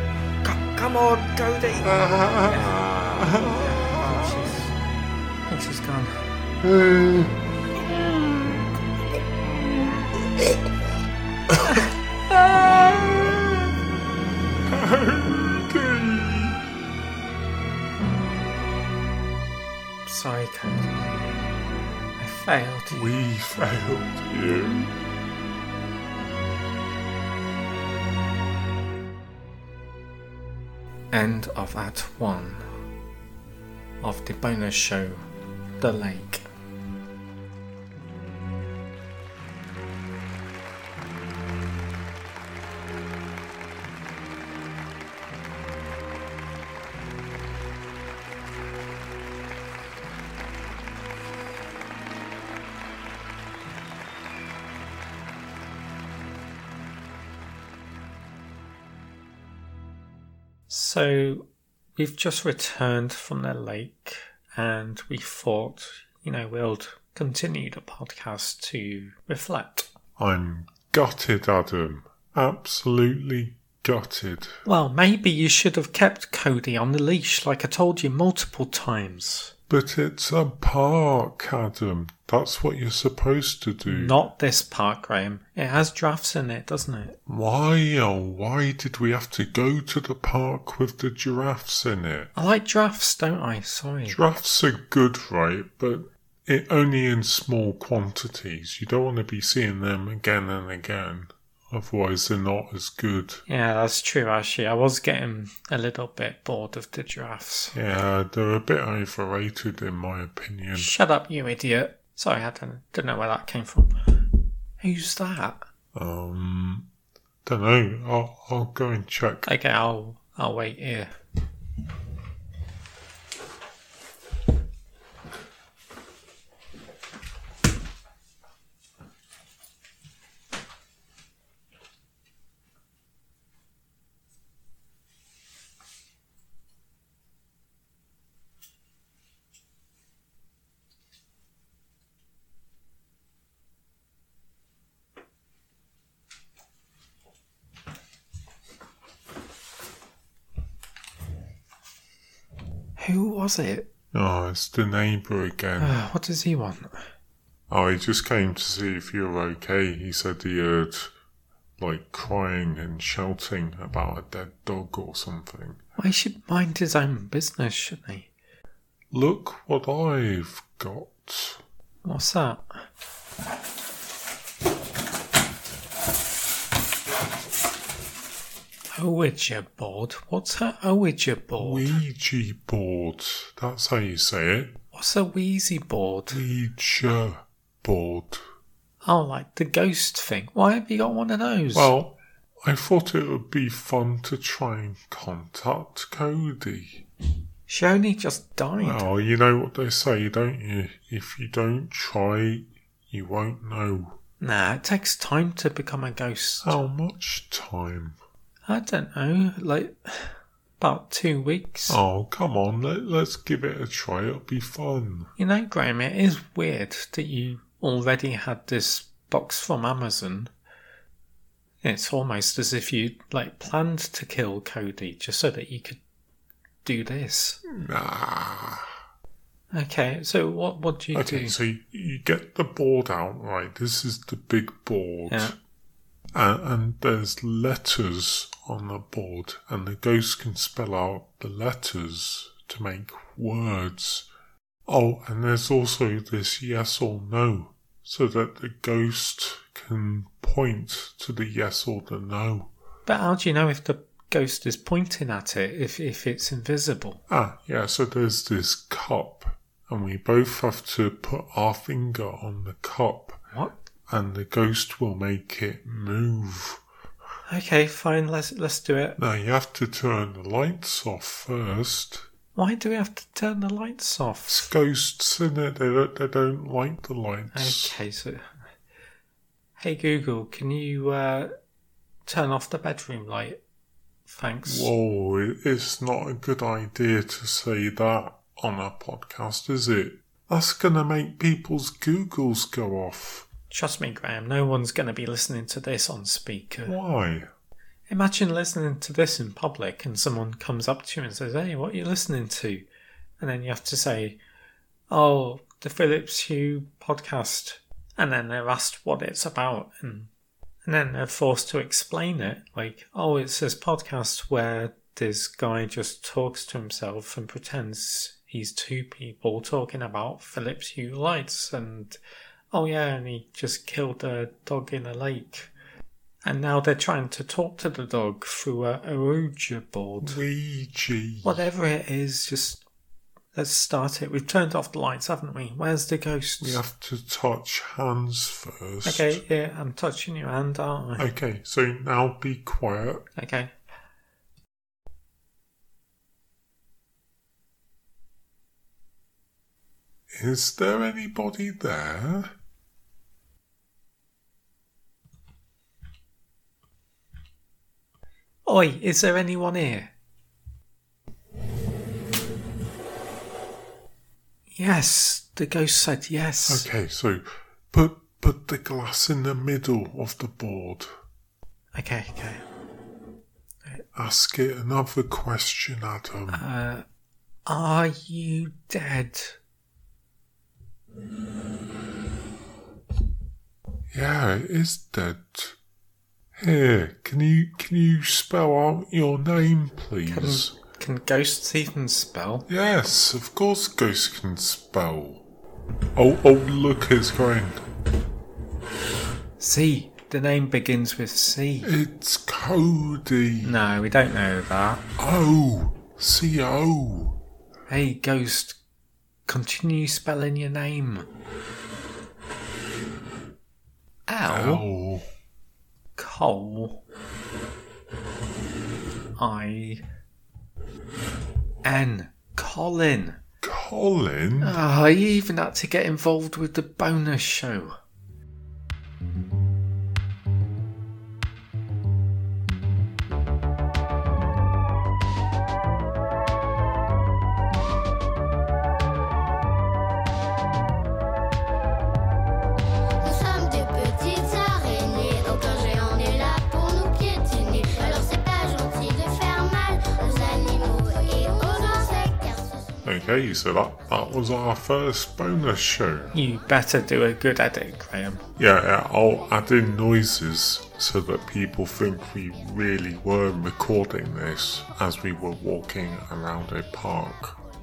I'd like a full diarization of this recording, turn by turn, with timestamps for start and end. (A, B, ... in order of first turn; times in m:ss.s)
0:00.4-0:04.7 A
0:01.8-0:04.6 B
0:05.5-0:06.4 A
0:06.6-0:07.4 B
0:11.5-0:13.6 B
0:11.6-0:11.9 A
0:14.6-0:16.6 B
0:20.0-0:21.1 A
0:22.2-0:23.1 A
0:22.9-0:24.9 B
0:31.1-0:32.7 A
0:34.0-0:35.2 A
0:35.8-0:36.4 A
1:00.7-1:01.4 A
1:02.0-1:09.9 A
1:10.2-1:14.6 B
1:14.6-1:19.5 A
1:19.7-1:24.2 B
1:23.8-1:27.2 A
1:27.3-1:32.3 B
1:32.3-1:34.2 A
1:34.1-1:43.4 B
1:43.5-1:47.8 A
1:47.7-1:50.9 B
1:50.7-1:55.6 A
1:55.9-1:56.9 B
1:57.4-1:59.5 B
1:59.4-2:01.1 A
2:33.0-2:33.9 A
2:34.1-2:36.0 B
2:35.8-2:37.0 A
2:37.7-2:41.1 B
2:41.8-2:45.8 B
2:46.0-2:48.3 A
2:49.1-2:51.6 B
2:52.0-2:52.8 A
2:59.0-3:01.9 A
3:01.6-3:04.7 B
3:04.9-3:06.4 A
3:06.3-3:08.4 B
3:09.0-3:11.9 A
3:11.7-3:17.0 B
3:17.7-3:19.0 A
3:18.8-3:24.2 B
3:24.4-3:26.9 A
3:26.6-3:28.2 B
3:28.7-3:32.0 A
3:31.9-3:35.3 B
3:35.4-3:40.5 A
3:41.8-3:46.0 A
3:46.8-3:47.6 A
3:47.7-3:48.9 B
3:49.7-3:51.6 A
3:51.1-3:55.6 B
3:55.3-3:55.5 A
3:56.3-4:04.3 B
4:04.9-4:12.7 B
4:13.0-4:17.2 A
4:17.3-4:23.4 B
4:24.1-4:26.8 B
4:27.5-4:29.2 A
4:29.2-4:32.3 B
4:32.5-4:34.7 A
4:34.5-4:38.0 B
4:37.5-4:38.6 A
4:39.8-4:41.5 A
4:42.2-4:43.6 A
4:44.3-4:44.9 A
4:44.6-4:53.5 B
4:53.7-4:57.0 A
4:56.8-4:57.5 B
4:58.1-5:02.8 A
5:03.4-5:04.4 A
5:05.1-5:10.3 A
5:10.8-5:22.2 A
5:22.7-5:25.7 A
5:26.4-5:30.4 A
5:30.2-5:31.7 B
5:31.4-5:32.8 A
5:33.5-5:36.8 A
5:36.6-5:39.4 B
5:39.0-5:41.3 A
5:41.2-5:43.2 B
5:43.4-5:43.7 A
5:50.3-5:52.5 B
5:58.6-6:00.1 A
6:04.7-6:06.9 A
6:06.7-6:11.1 B
6:11.9-6:12.6 A
6:14.1-6:16.6 B
6:16.5-6:17.0 A
6:17.6-6:19.6 A
6:24.1-6:25.8 B
6:26.6-6:30.7 B
6:30.3-6:32.7 A
6:32.7-6:35.4 B
6:36.2-6:37.8 B
6:39.6-6:41.9 A
6:41.8-6:43.8 B
6:43.6-6:45.0 A
6:45.2-6:47.4 B
6:47.9-6:48.8 A
6:49.5-6:51.3 A
6:54.3-6:54.8 A
6:54.4-6:55.2 B
6:56.2-6:57.0 A
6:59.4-7:00.0 A
7:01.8-7:03.4 A
7:03.6-7:04.8 B
7:04.6-7:07.9 A
7:23.2-7:32.8 C
7:33.0-7:36.3 B
7:36.3-7:38.4 A
7:38.6-7:47.6 B